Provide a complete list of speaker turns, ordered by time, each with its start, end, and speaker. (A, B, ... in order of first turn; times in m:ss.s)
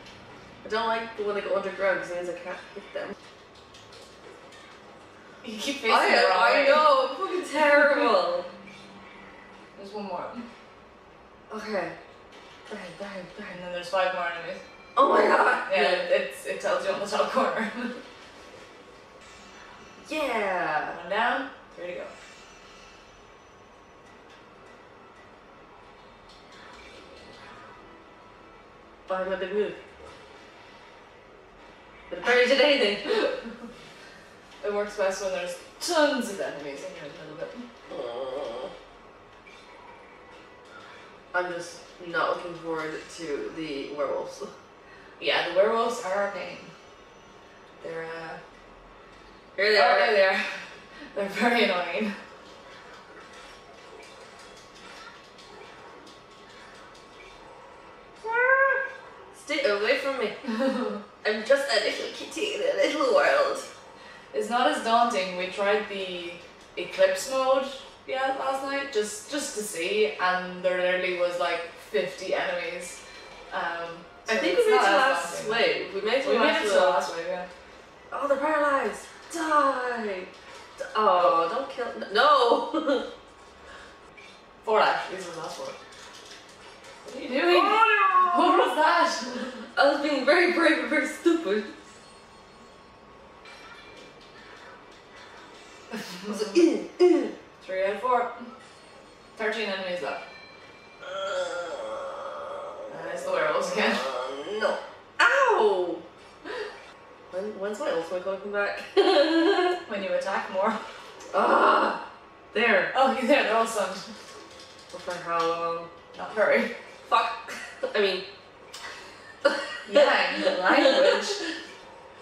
0:00.6-0:03.1 A
0:05.4-0:07.0 B
0:05.9-0:08.5 A
0:09.8-0:10.4 B
0:11.5-0:12.0 A
0:12.6-0:13.6 A
0:13.5-0:14.6 B
0:15.0-0:16.1 A
0:15.6-0:18.0 B
0:20.0-0:21.0 A
0:20.9-0:22.1 B
0:29.1-0:29.8 A
0:32.1-0:33.3 A
0:34.6-0:37.6 B
0:37.9-0:38.7 A
0:41.3-0:44.5 A
0:45.2-0:46.7 B
0:47.8-0:48.4 B
0:49.5-0:50.2 A
0:49.7-0:52.2 B
0:58.2-0:58.8 A
0:59.3-1:00.4 A
1:00.5-1:01.0 B
1:01.2-1:03.7 A
1:04.3-1:17.5 B
1:14.2-1:17.1 A
1:18.1-1:23.0 A
1:21.1-1:21.4 B
1:24.6-1:25.8 B
1:27.0-1:29.6 B
1:27.4-1:28.8 A
1:29.7-1:31.8 A
1:35.9-1:36.6 B
1:36.3-1:37.3 A
1:37.6-1:38.5 B
1:39.3-1:40.2 B
1:41.0-1:42.5 A
1:42.9-1:44.0 B
1:43.1-1:46.0 A
1:47.3-1:49.8 A
1:49.8-1:50.8 B
1:51.3-1:52.9 A
1:52.9-1:54.1 B
1:54.9-1:55.9 A
1:56.1-1:56.7 B
1:57.0-1:58.2 A
1:59.5-2:01.2 A
1:59.8-2:01.4 B